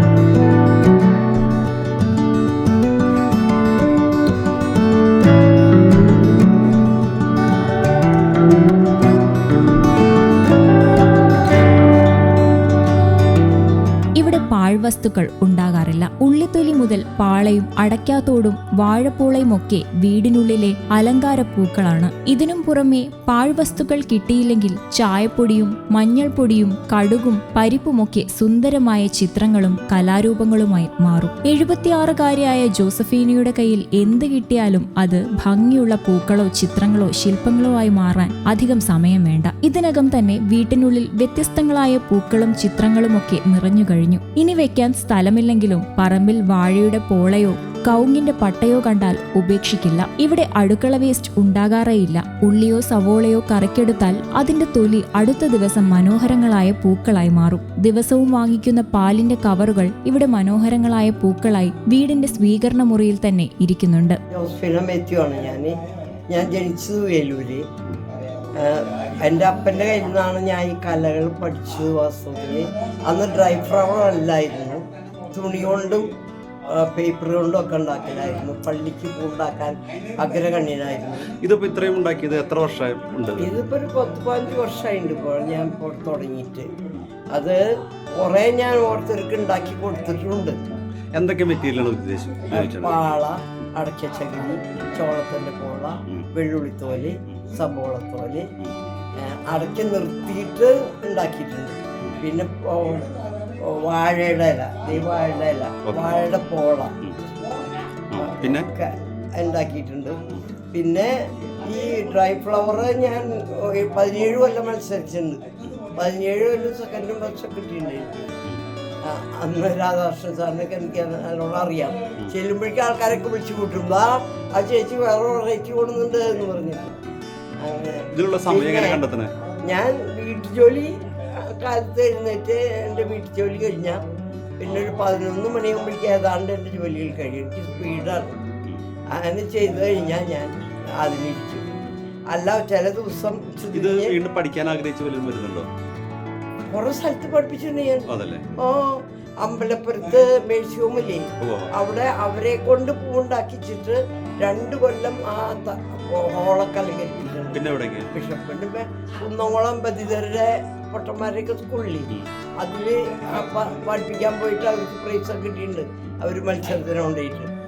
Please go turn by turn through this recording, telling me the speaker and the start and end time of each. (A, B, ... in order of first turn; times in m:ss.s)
0:14.2-1:04.2 A
1:04.3-1:05.7 B
1:06.3-1:07.6 B
1:08.5-1:16.1 B
1:16.7-1:21.3 B
1:21.4-1:23.5 C
1:23.4-1:26.7 B
1:27.3-1:27.6 B
1:28.2-1:30.6 B
1:31.2-1:33.0 C
1:32.5-1:38.5 B
1:39.2-1:47.0 B
1:45.8-1:46.2 C
1:48.1-1:48.7 C
1:48.1-1:58.3 B
1:59.0-2:06.9 B
2:07.6-2:09.0 B
2:08.1-2:09.3 C
2:09.6-2:14.0 B
2:14.6-2:18.4 B
2:19.1-2:21.7 B
2:22.3-2:24.1 B
2:23.7-2:25.7 C
2:26.7-2:47.5 B
2:28.1-2:28.5 C
2:31.4-2:31.7 C
2:37.5-2:38.1 C